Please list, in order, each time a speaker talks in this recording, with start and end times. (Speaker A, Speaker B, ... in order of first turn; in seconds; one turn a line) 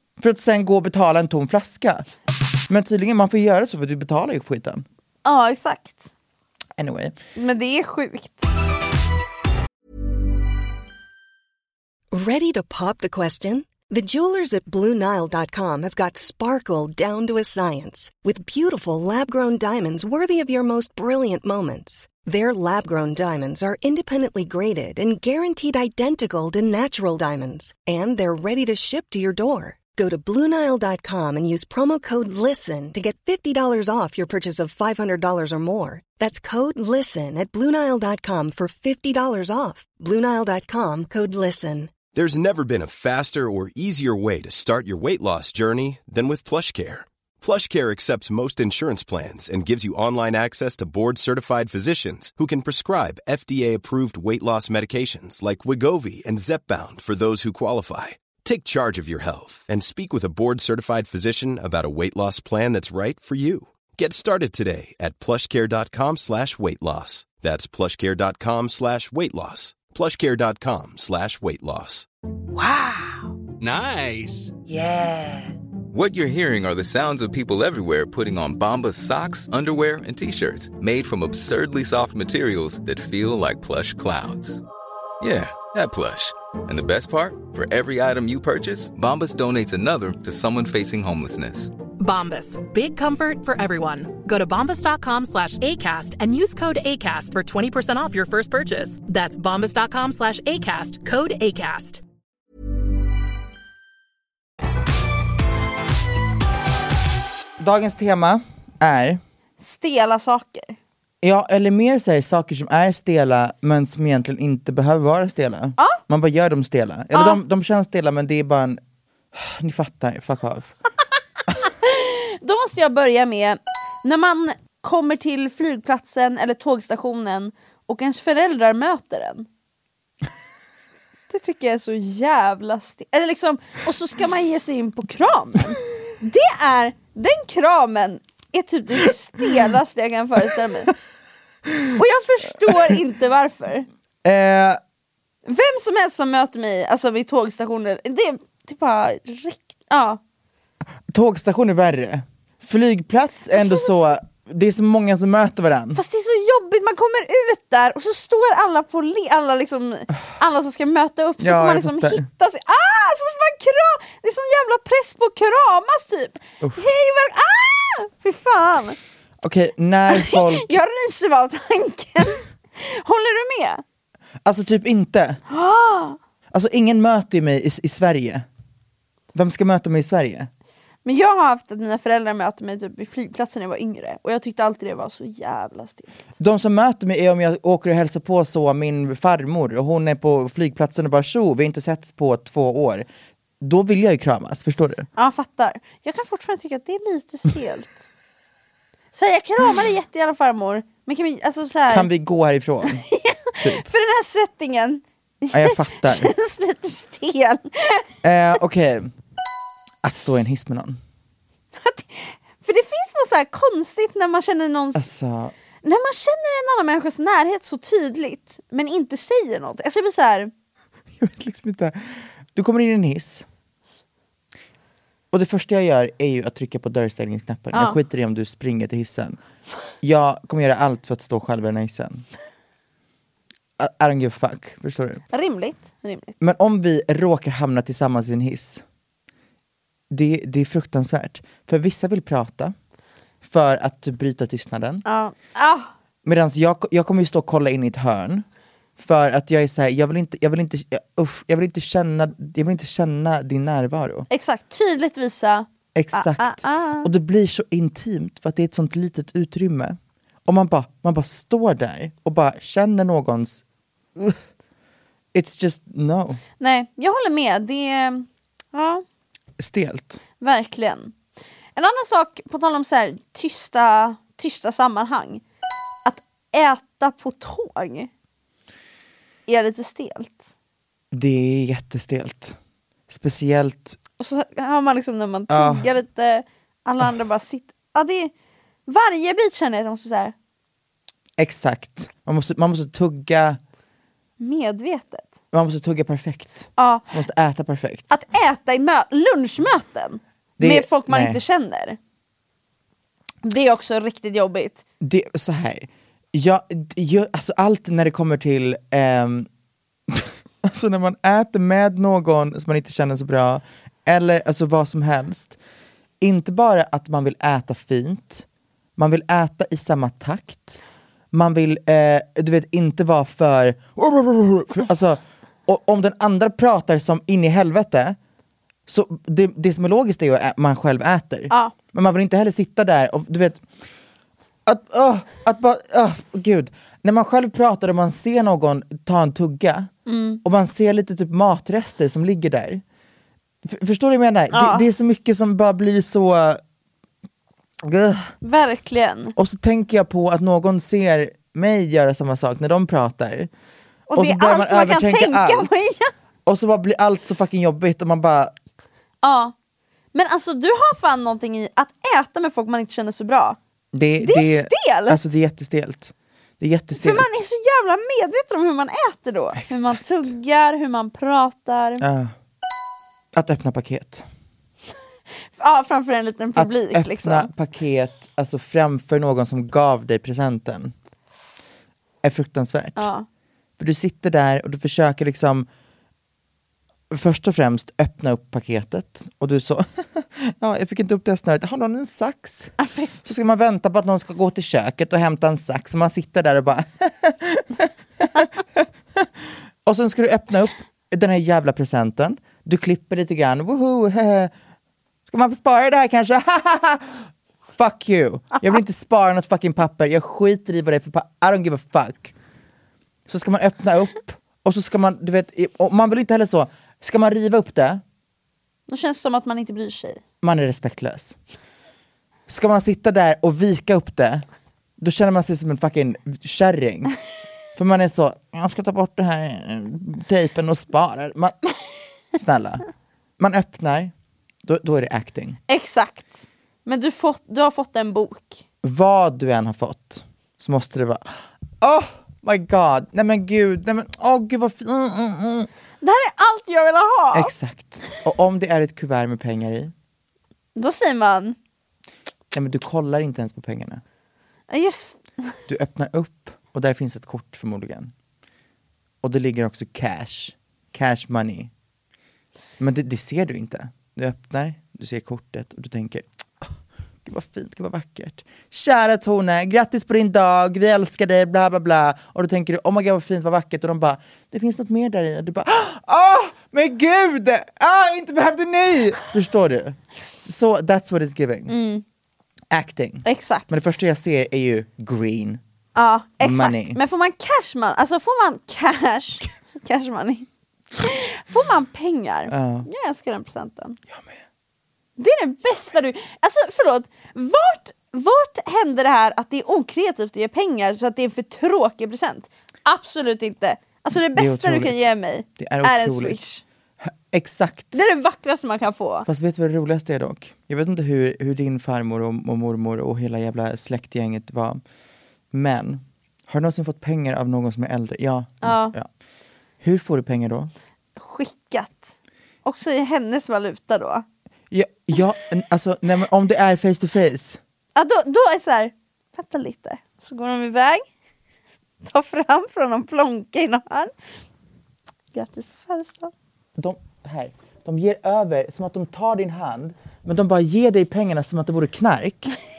Speaker A: 0.2-2.1
Speaker A: 2.7-4.8
Speaker B: 5.2-6.1
Speaker A: 6.8-7.2
Speaker B: 7.4-8.5
Speaker C: 12.1-42.0
Speaker D: 42.1-72.1
Speaker E: 72.5-73.2
Speaker E: 74.6-84.6
Speaker E: 85.2-91.8
Speaker F: 92.0-102.0
Speaker A: 107.6-109.2
Speaker B: 109.6-110.8
Speaker A: 111.2-118.8
Speaker B: 117.1-117.4
Speaker A: 119.3-120.7
Speaker B: 121.8-129.5
Speaker B: 131.3-140.9
Speaker B: 142.0-143.9
Speaker A: 144.2-144.8
Speaker B: 145.5-150.2
Speaker A: 151.1-156.0
Speaker B: 153.5-154.0
Speaker B: 155.9-169.0
Speaker A: 161.4-162.3
Speaker A: 169.4-170.7
Speaker B: 170.1-173.8
Speaker A: 174.4-175.4
Speaker B: 175.5-176.2
Speaker A: 176.5-178.5
Speaker A: 179.3-180.5
Speaker B: 181.1-186.2
Speaker A: 186.4-193.1
Speaker A: 193.6-195.1
Speaker B: 195.2-198.1
Speaker B: 199.1-202.1
Speaker A: 201.9-203.0
Speaker B: 202.9-208.1
Speaker A: 205.5-206.3
Speaker A: 208.2-209.1
Speaker A: 210.0-211.0
Speaker B: 211.8-215.1
Speaker A: 214.9-215.5
Speaker B: 215.8-220.5
Speaker A: 221.2-223.4
Speaker A: 225.3-229.4
Speaker B: 227.7-228.0
Speaker A: 230.0-232.2
Speaker A: 233.8-235.2
Speaker B: 235.3-236.4
Speaker A: 236.4-238.8
Speaker A: 240.1-242.7
Speaker A: 243.4-245.0
Speaker B: 245.1-245.9
Speaker A: 246.2-248.4
Speaker A: 249.0-254.3
Speaker B: 254.3-257.1
Speaker A: 255.9-263.6
Speaker A: 265.3-266.4
Speaker B: 266.6-269.0
Speaker A: 269.6-270.2
Speaker B: 270.4-271.1
Speaker B: 271.8-275.4
Speaker B: 276.1-278.1
Speaker B: 279.5-280.5
Speaker A: 281.1-282.6
Speaker A: 283.1-284.0
Speaker B: 284.2-288.3
Speaker A: 285.5-285.9
Speaker B: 288.9-290.3
Speaker A: 291.4-293.6
Speaker B: 294.4-295.3
Speaker A: 295.5-298.1
Speaker B: 296.8-297.1
Speaker B: 298.1-302.0
Speaker A: 300.6-301.4
Speaker B: 303.4-304.8
Speaker A: 305.0-309.5
Speaker A: 310.1-315.6
Speaker A: 316.2-318.4
Speaker A: 319.0-320.8
Speaker A: 321.3-328.2
Speaker A: 328.9-333.6
Speaker A: 334.7-339.9
Speaker B: 340.1-340.4
Speaker A: 340.4-342.8
Speaker A: 343.6-346.6
Speaker B: 344.5-344.9
Speaker A: 347.8-348.3
Speaker B: 348.4-349.3
Speaker A: 349.4-353.5
Speaker B: 354.1-356.1
Speaker A: 354.1-355.7
Speaker A: 356.5-358.5
Speaker B: 359.2-359.5
Speaker B: 360.1-363.6
Speaker A: 363.9-367.3
Speaker B: 364.2-365.4
Speaker B: 367.0-372.1
Speaker A: 369.6-370.3
Speaker A: 372.0-372.3
Speaker A: 373.4-374.2
Speaker B: 375.6-377.5
Speaker A: 376.6-380.9
Speaker A: 382.2-383.1
Speaker B: 383.0-383.3
Speaker A: 383.8-385.7
Speaker A: 387.1-399.3
Speaker B: 392.8-393.1
Speaker A: 399.9-404.5
Speaker A: 405.3-412.3
Speaker A: 413.3-418.0
Speaker B: 418.9-420.2
Speaker A: 420.4-421.4
Speaker A: 422.5-424.4
Speaker A: 425.0-427.1
Speaker A: 427.8-431.6
Speaker A: 432.4-432.8
Speaker A: 433.4-434.1
Speaker A: 434.6-435.6
Speaker B: 435.7-438.6
Speaker A: 438.8-445.7
Speaker B: 446.0-447.6
Speaker A: 447.3-449.9
Speaker B: 450.8-451.6
Speaker A: 452.5-454.0
Speaker B: 454.7-455.2
Speaker A: 455.7-458.1
Speaker A: 459.2-461.7
Speaker A: 462.8-466.7
Speaker A: 467.2-481.7
Speaker B: 481.7-482.0
Speaker A: 482.7-485.6
Speaker B: 483.2-483.7
Speaker B: 485.9-494.0
Speaker A: 486.4-487.0
Speaker A: 492.5-492.9
Speaker B: 495.2-506.6
Speaker A: 504.1-506.4
Speaker A: 507.0-508.0
Speaker B: 507.9-509.3
Speaker A: 509.3-514.8
Speaker A: 515.5-519.1
Speaker B: 518.6-519.0
Speaker A: 519.8-520.7
Speaker B: 521.2-522.1
Speaker B: 522.6-524.2
Speaker A: 524.7-527.6
Speaker B: 528.0-531.0
Speaker B: 532.0-534.1
Speaker B: 535.3-536.3
Speaker A: 536.8-542.6